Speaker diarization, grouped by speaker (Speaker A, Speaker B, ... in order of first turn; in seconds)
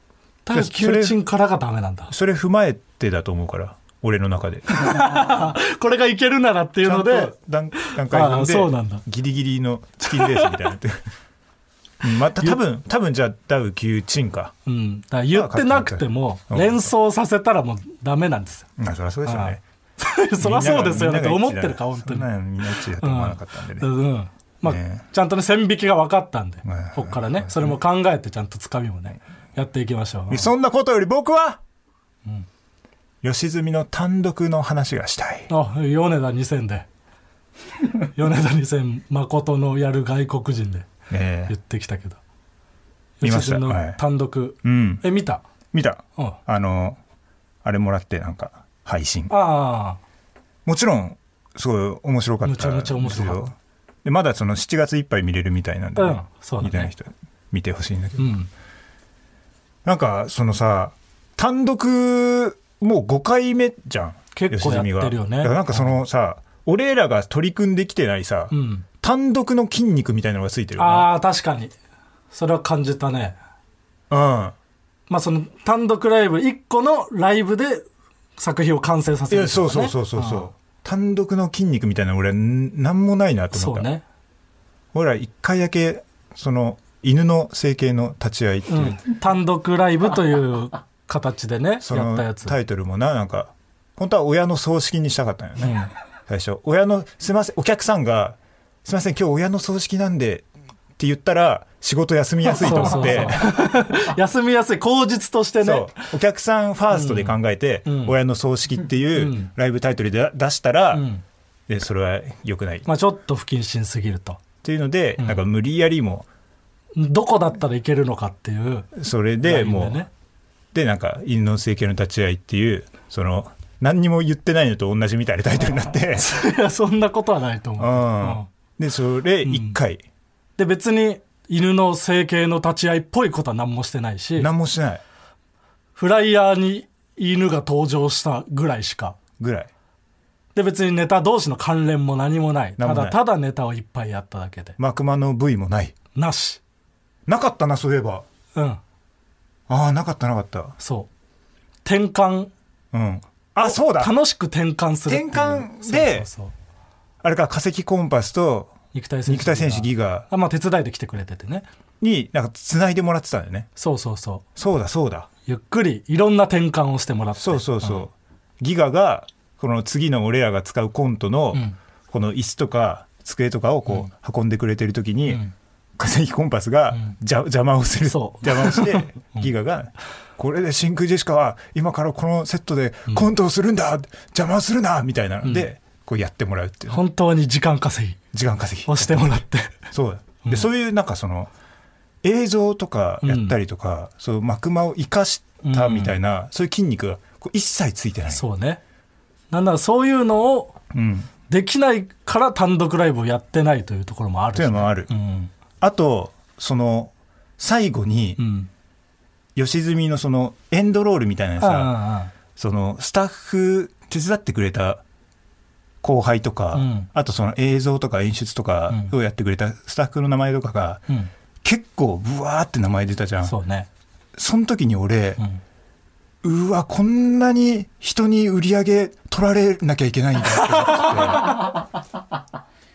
Speaker A: 0.5-2.1, 4.7-9.0, 10.1-10.6, 14.7-18.7, 19.2-22.3, 23.0-30.5, 35.5-36.9, 38.0-40.9, 41.5-42.2, 43.2-45.4, 49.3-50.0, 52.4-53.4, 56.0-56.9, 58.2-58.5, 64.3-65.9, 68.5-68.8, 70.8-71.7, 72.3-73.4, 75.1-77.9, 78.4-80.5, 83.5-84.0, 88.7-92.5, 95.6-95.9, 102.5-106.1, 106.9-108.2, 109.2-109.5, 110.9-111.2, 112.9-114.4, 115.2-115.4, 117.0-120.1, 126.1-128.5, 129.4-129.8, 130.6-134.5, 136.0-139.2, 140.6-144.8, 146.2-146.6, 148.6-148.8, 150.8-151.1, 151.8-152.5, 153.7-156.5, 158.9-161.7, 163.8-164.4, 165.5-168.1, 178.1-179.5, 185.4-185.7, 186.9-188.2, 188.9-189.8, 193.2-193.6, 195.6-196.2, 198.3-198.8, 199.5-200.8, 201.5-205.5, 208.4-208.7, 211.6-212.3, 216.7-217.1, 223.4-223.9, 230.5-231.7
Speaker B: 0.5-1.2, 2.1-5.0, 6.8-11.0, 12.0-14.6, 15.3-16.9, 18.8-19.6, 20.4-23.9, 24.6-25.0, 26.6-27.8, 30.3-31.6, 33.2-35.5, 41.1-41.5, 43.2-44.0, 44.6-45.0, 45.7-47.0, 47.6-49.3, 50.6-58.3, 59.9-71.1, 74.1-74.5, 79.3-83.9, 84.9-89.0, 91.8-100.5, 101.0-103.6, 105.6-111.1, 111.7-112.9, 114.6-116.3, 119.0-120.0, 120.7-126.3, 127.8-130.0, 134.4-135.0, 139.4-139.7, 142.8-143.2, 144.8-145.9, 147.3-148.3, 149.7-150.8, 152.9-154.1, 155.1-156.3, 157.2-160.3, 162.0-163.7, 164.6-165.3, 167.4-175.4, 176.0-187.0, 188.3-189.4, 189.9-191.5, 192.2-198.4, 200.9-201.3, 204.6-205.1, 205.8-208.4, 209.6-211.9, 212.6-215.0, 216.0-221.0, 221.6-223.5, 224.4-225.4, 226.4-231.6